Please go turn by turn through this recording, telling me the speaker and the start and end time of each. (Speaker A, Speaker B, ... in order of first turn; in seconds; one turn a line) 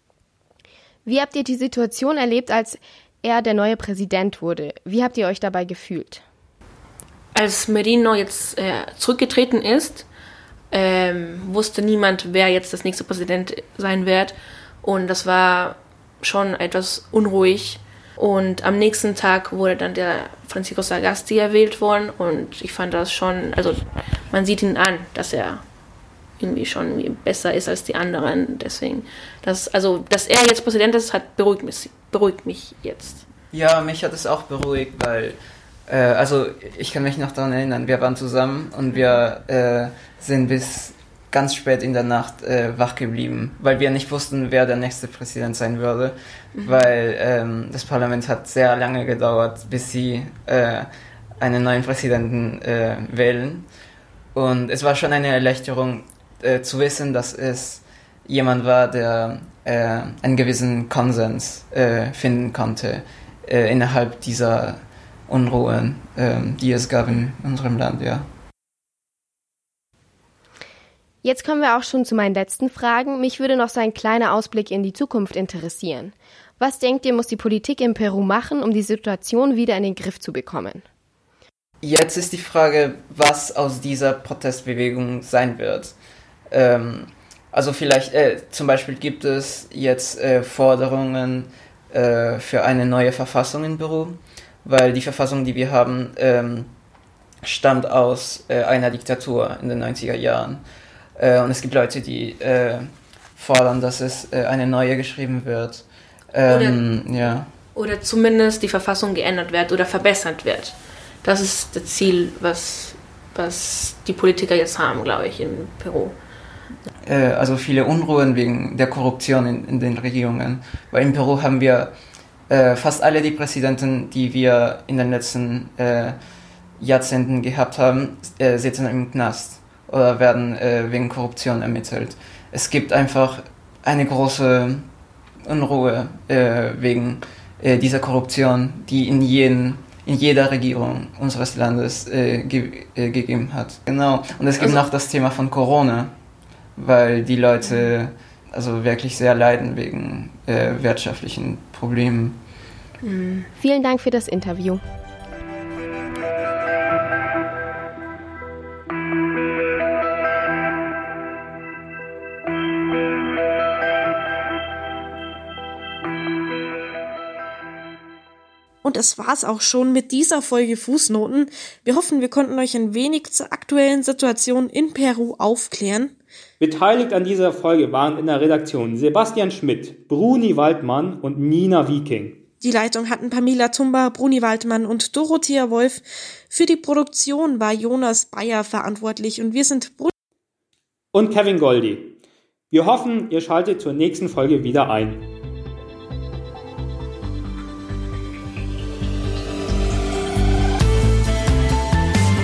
Speaker A: 1.1-6.2
Speaker B: 7.3-10.1
Speaker B: 10.7-23.8
Speaker B: 24.3-25.6
Speaker B: 26.4-33.2
Speaker C: 33.5-50.9
Speaker B: 46.5-46.8
Speaker C: 51.4-53.6
Speaker C: 54.4-68.3
Speaker A: 71.2-80.8
Speaker C: 81.8-85.9
Speaker C: 86.5-96.7
Speaker C: 97.4-100.6
Speaker C: 101.2-107.5
Speaker B: 106.5-106.8
Speaker B: 107.8-116.2
Speaker C: 117.0-121.9
Speaker C: 122.5-126.2
Speaker C: 126.8-134.9
Speaker C: 135.4-146.1
Speaker C: 146.8-152.4
Speaker B: 147.6-147.9
Speaker B: 153.0-153.5
Speaker A: 153.6-154.8
Speaker D: 168.8-176.2
Speaker E: 176.6-182.4
Speaker D: 182.6-190.1
Speaker E: 191.1-192.2
Speaker E: 192.7-195.2